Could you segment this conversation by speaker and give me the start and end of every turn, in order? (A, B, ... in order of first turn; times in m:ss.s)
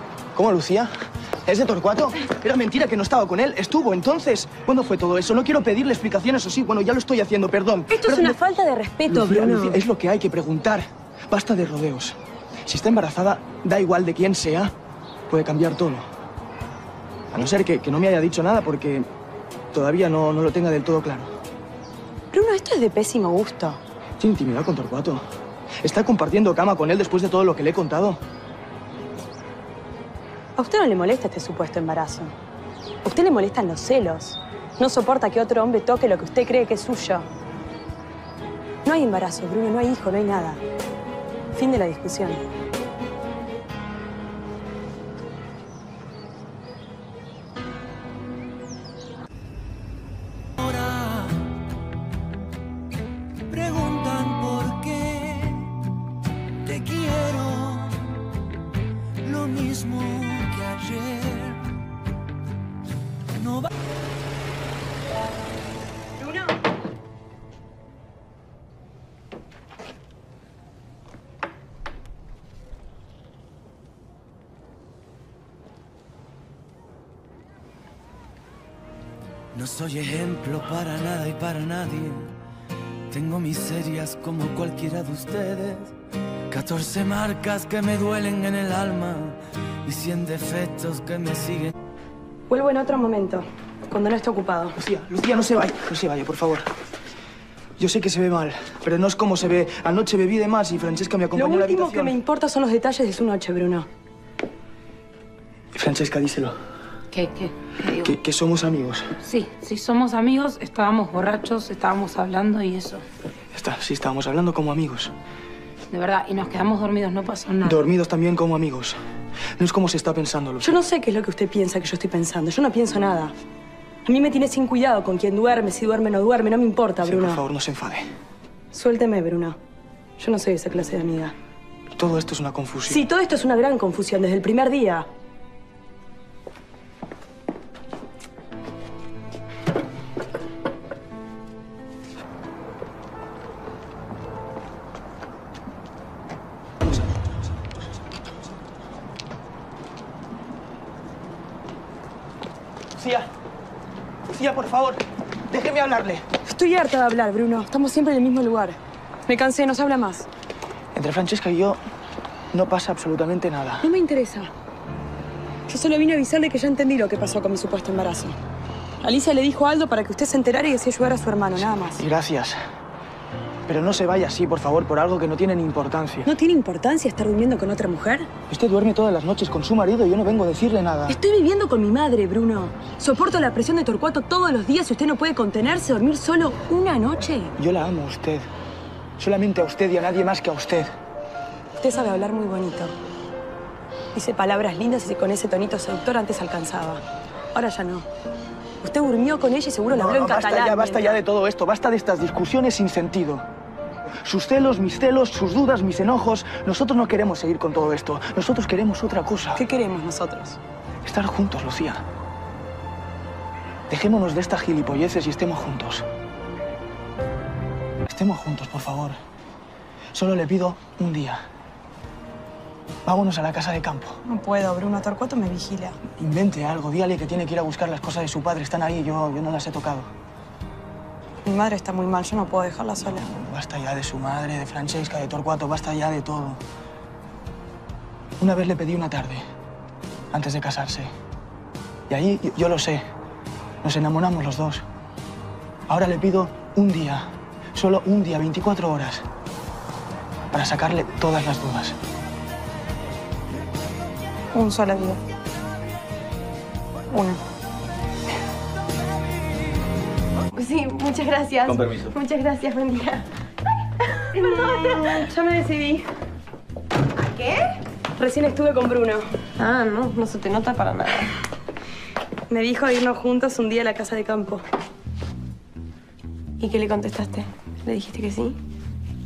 0:00.3-0:00.9 A
0:01.4-0:08.4 A
0:07.9-0:09.8 B
0:09.1-0:14.7 A
0:15.3-0:16.1 A
0:17.3-0:19.1 A
0:19.7-0:21.3 A
0:22.3-0:23.8 B
0:24.2-0:25.2 A
0:25.8-0:28.2 A
0:30.6-0:32.3 B
0:33.0-0:37.3 B
0:38.8-0:40.6 B
0:41.5-0:42.4 B
0:50.6-0:51.5 C
0:53.5-0:55.9 C
0:56.6-0:58.2 C
0:59.2-1:01.7 C
1:03.3-1:03.7 C
1:19.5-1:22.3 C
1:23.1-1:25.9 C
1:26.5-1:31.7 C
1:32.5-1:34.8 B
1:34.8-1:36.7 A
1:37.8-1:42.2 A
1:41.3-1:43.9 B
1:45.7-1:46.6 A
1:47.1-1:48.1 D
1:48.0-1:49.1 A
1:49.2-1:53.0 D
1:53.5-1:55.1 A
1:55.9-1:57.8 D
1:57.6-1:59.0 A
1:59.6-2:00.8 A
2:00.6-2:03.3 B
2:04.0-2:07.4 B
2:07.0-2:08.1 A
2:08.7-2:09.6 B
2:10.2-2:11.3 B
2:11.9-2:13.0 A
2:12.9-2:15.1 B
2:33.0-2:33.3 A
2:34.3-2:36.2 A
2:36.4-2:40.3 B
2:40.9-2:41.8 A
2:42.5-2:43.8 A
2:43.8-2:44.5 B
2:45.7-2:48.4 B
2:49.0-2:52.0 B
2:51.8-2:52.6 A
2:53.7-2:56.3 A
2:56.2-2:58.3 B
2:58.5-3:01.2 A
3:01.1-3:07.5 B
3:07.6-3:08.5 A
3:09.2-3:10.9 A
3:11.8-3:12.9 B
3:14.1-3:17.0 B
3:17.5-3:18.1 B
3:18.8-3:21.2 B
3:19.9-3:23.4 A
3:24.2-3:29.6 A
3:29.6-3:30.6 B
3:31.0-3:32.0 A
3:33.9-3:36.0 A
3:38.1-3:39.2 A
3:40.1-3:41.4 A
3:43.0-3:44.2 A
3:44.2-3:46.0 B
3:46.2-3:50.1 A
3:51.4-3:53.3 B
3:53.1-3:56.6 A
3:58.4-3:59.4 A
4:00.3-4:01.1 A
4:02.1-4:03.0 A
4:03.8-4:04.8 A
4:05.9-4:09.2 A
4:10.5-4:12.0 A
4:14.5-4:15.2 B
4:17.1-4:17.4 B
4:20.5-4:23.3 E
4:24.1-4:25.2 E
4:24.3-4:26.0 B
4:27.2-4:27.8 E
4:28.2-4:29.3 B
4:29.6-4:31.4 E
4:32.5-4:34.6 B
4:36.6-4:38.6 E